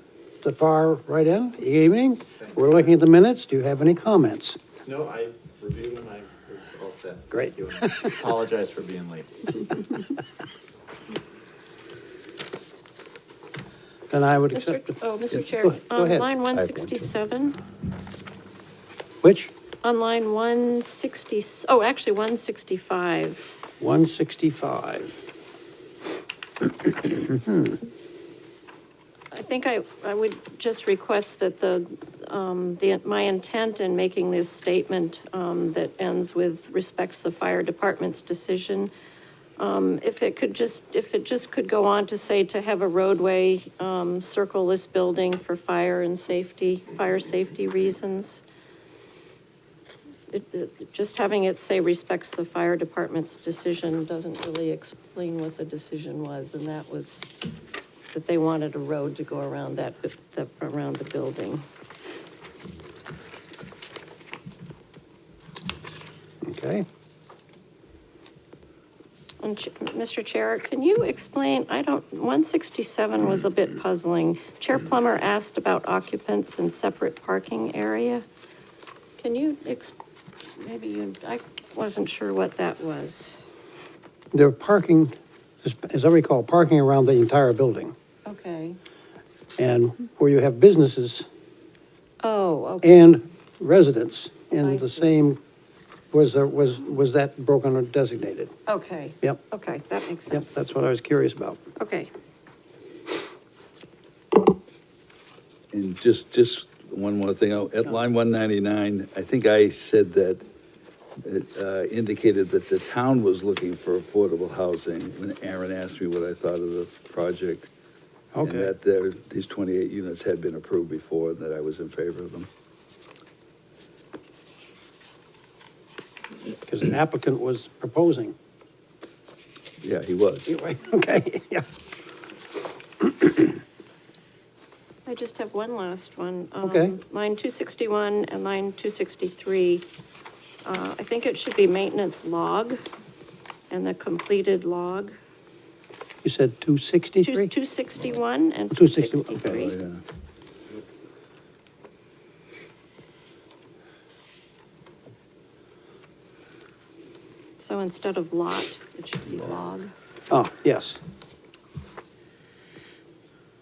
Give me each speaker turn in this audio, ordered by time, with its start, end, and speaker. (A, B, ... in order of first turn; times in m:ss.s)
0:00.4-0:04.6 A
0:02.4-0:02.8 B
0:04.8-0:09.6 B
0:07.3-0:08.2 A
0:14.1-0:15.0 A
0:14.5-0:17.6 C
0:15.6-0:16.3 A
0:16.5-0:17.1 D
0:19.2-0:19.5 A
0:19.8-0:23.4 C
0:23.8-0:25.2 A
0:29.3-0:38.9 C
0:39.6-0:48.4 C
0:50.3-0:57.3 C
0:58.1-1:01.6 C
1:06.4-1:06.8 A
1:09.4-1:18.2 C
1:19.2-1:19.9 C
1:20.6-1:23.4 C
1:24.3-1:27.9 A
1:28.2-1:28.8 C
1:29.6-1:31.3 A
1:32.2-1:33.0 C
1:32.8-1:35.4 A
1:34.6-1:35.2 C
1:36.1-1:38.5 A
1:38.7-1:40.6 C
1:40.3-1:41.6 A
1:41.8-1:42.1 C
1:45.7-1:50.4 D
1:51.2-1:57.7 D
1:58.3-1:58.7 A
1:58.4-2:02.5 D
2:06.6-2:08.3 A
2:09.8-2:10.5 D
2:10.5-2:11.6 A
2:13.0-2:13.4 A
2:15.0-2:19.8 C
2:16.6-2:17.0 A
2:20.6-2:22.8 C
2:23.7-2:25.1 C
2:26.2-2:27.5 A
2:27.2-2:29.7 C
2:28.7-2:29.6 A
2:29.4-2:30.0 D
2:37.6-2:39.9 C
2:40.3-2:41.0 A